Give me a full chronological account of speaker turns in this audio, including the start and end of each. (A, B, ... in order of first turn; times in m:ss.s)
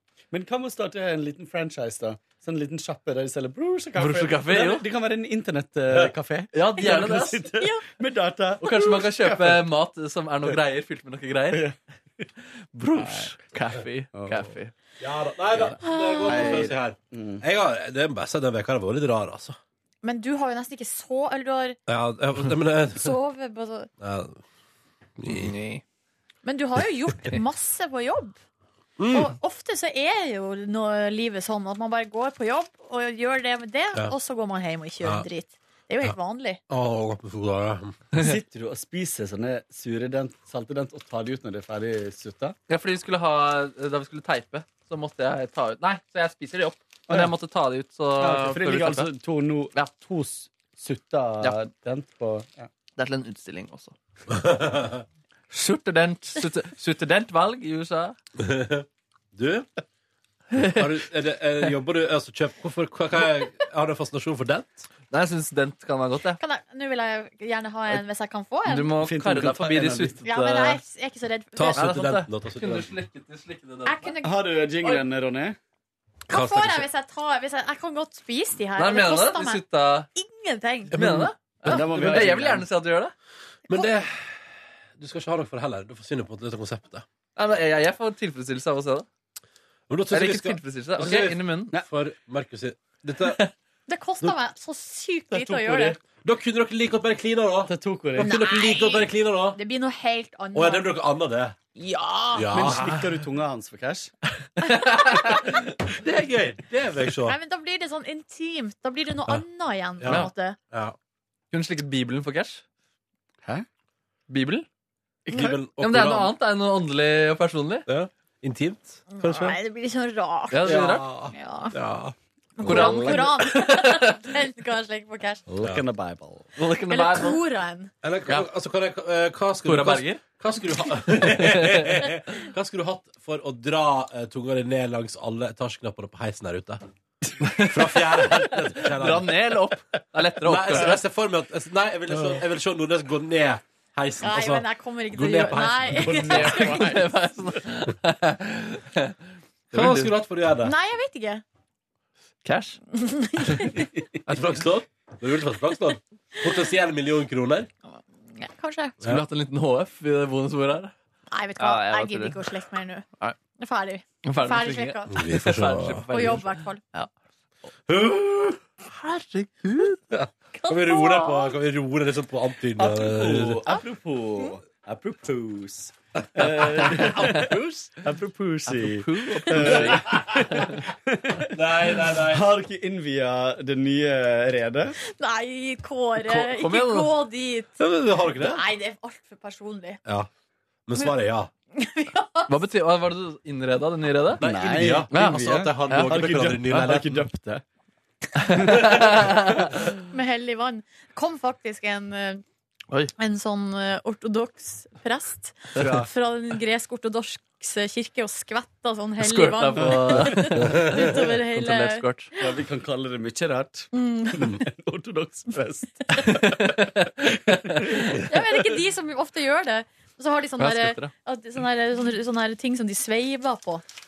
0:00.3-0:09.6 A
0:04.0-0:04.8 B
0:06.5-0:07.5 B
0:07.6-0:07.8 C
0:08.6-0:11.7 B
0:11.5-0:12.2 A
0:12.7-0:14.7 B
0:13.0-0:13.3 A
0:14.1-0:14.5 A
0:15.0-0:19.6 D
0:15.6-0:17.4 A
0:15.8-0:16.6 C
0:20.0-0:21.8 C
0:21.9-0:23.2 D
0:22.9-0:23.9 C
0:24.0-0:24.4 D
0:25.2-0:25.6 D
0:25.3-0:25.8 B
0:26.4-0:28.4 C
0:29.0-0:29.4 D
0:29.1-0:36.6 C
0:36.7-0:38.0 D
0:38.2-0:42.6 A
0:42.7-0:49.1 B
0:48.2-0:52.7 A
0:53.0-0:54.0 B
0:54.3-0:55.0 D
0:55.5-0:58.2 B
0:58.4-0:59.7 D
1:00.5-1:00.9 B
1:00.6-1:04.9 D
1:05.1-1:06.4 B
1:06.4-1:08.9 C
1:08.7-1:10.8 B
1:09.0-1:10.2 A
1:10.2-1:11.9 C
1:11.6-1:13.0 D
1:11.8-1:14.1 B
1:13.9-1:14.5 C
1:14.2-1:15.6 A
1:16.3-1:16.9 D
1:16.3-1:19.6 C
1:18.8-1:20.1 B
1:20.2-1:20.9 C
1:20.9-1:22.2 D
1:20.9-1:23.1 B
1:21.6-1:22.7 A
1:23.7-1:27.1 D
1:27.4-1:29.1 B
1:29.9-1:33.4 D
1:30.1-1:31.7 B
1:33.9-1:36.0 C
1:35.3-1:36.0 A
1:36.2-1:39.6 D
1:37.7-1:38.3 A
1:38.2-1:40.9 C
1:40.5-1:41.6 D
1:41.8-1:42.5 C
1:42.3-1:43.0 D
1:42.5-1:44.1 A
1:44.6-1:45.6 B
1:45.9-1:47.4 D
1:47.3-1:50.6 C
1:50.0-1:51.0 D
1:51.5-1:52.6 B
1:54.3-1:54.7 B
1:55.3-1:56.3 D
1:55.8-1:57.9 B
1:57.9-1:59.6 D
1:59.1-2:00.7 C
2:00.5-2:01.1 B
2:00.6-2:03.2 D
2:01.3-2:01.8 C
2:02.6-2:05.4 C
2:02.6-2:03.3 A
2:02.6-2:04.2 B
2:05.5-2:06.5 A
2:06.6-2:07.4 B
2:06.9-2:07.9 C
2:08.0-2:16.8 D
2:09.6-2:10.2 B
2:11.2-2:11.9 B
2:17.4-2:21.0 B
2:17.6-2:19.4 D
2:20.4-2:26.5 D
2:24.2-2:26.9 C
2:26.0-2:27.0 A
2:26.2-2:29.2 B
2:29.7-2:30.1 B
2:29.7-2:30.7 D
2:30.6-2:31.4 C
2:32.4-2:32.8 B
2:32.9-2:33.8 C
2:34.2-2:37.7 D
2:38.4-2:39.0 C
2:39.0-2:40.9 B
2:41.3-2:43.0 C
2:41.6-2:42.5 B
2:43.6-2:45.2 C
2:44.2-2:47.1 B
2:45.1-2:46.3 D
2:46.1-2:46.8 C
2:47.9-2:48.6 D
2:48.8-2:50.0 B
2:50.1-2:53.6 D
2:50.5-2:51.6 C
2:52.8-3:05.0 A
2:56.4-2:57.9 D
2:58.7-3:00.8 B
2:59.7-3:00.4 D
3:01.5-3:02.5 D
3:05.0-3:07.8 C
3:06.2-3:07.1 B
3:07.8-3:08.6 D
3:08.4-3:10.0 C
3:10.0-3:10.3 D
3:10.9-3:11.5 D
3:11.7-3:12.5 C
3:12.5-3:14.4 B
3:14.4-3:17.2 D
3:14.4-3:17.6 A
3:15.1-3:16.2 B
3:18.4-3:19.7 B
3:18.6-3:19.0 A
3:20.1-3:22.4 C
3:23.2-3:32.1 C
3:25.8-3:26.1 A
3:29.2-3:32.3 B
3:29.8-3:30.3 A
3:30.6-3:31.0 D
3:32.4-3:38.3 A
3:33.9-3:34.5 C
3:36.2-3:37.6 B
3:38.2-3:43.8 C
3:40.6-3:41.1 B